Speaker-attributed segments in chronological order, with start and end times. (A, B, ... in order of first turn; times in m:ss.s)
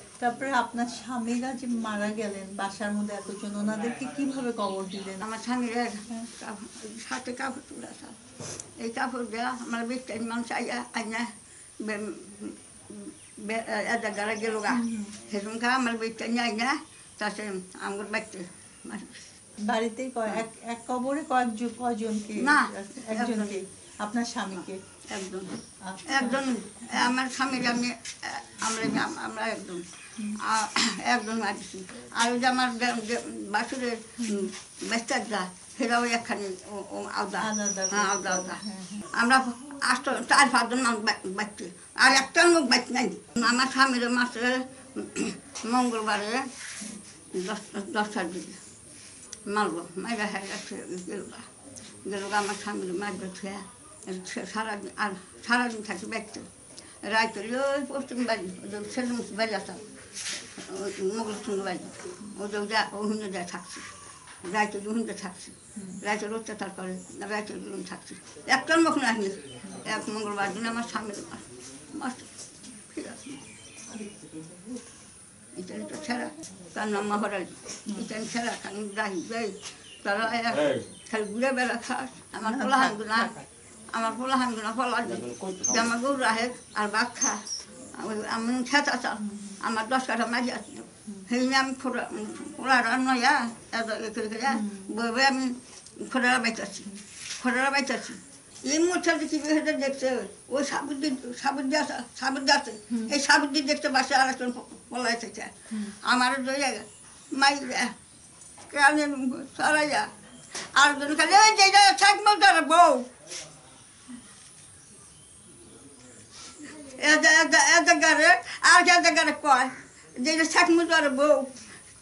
0:00.2-0:05.2 A
0:05.2-0:08.2 B
0:08.8-0:19.3 B
0:14.8-0:15.2 A
0:19.7-0:24.8 A
0:22.4-0:23.6 B
0:24.5-0:46.5 B
0:37.4-0:39.0 A
0:47.3-0:48.6 B
0:49.5-0:51.5 B
0:52.0-0:56.5 B
0:57.0-0:59.8 B
1:00.5-1:03.9 B
1:04.4-1:12.3 B
1:12.9-1:13.4 B
1:15.6-1:23.4 B
1:23.9-1:48.0 B
1:48.7-1:53.1 B
1:56.7-2:01.5 B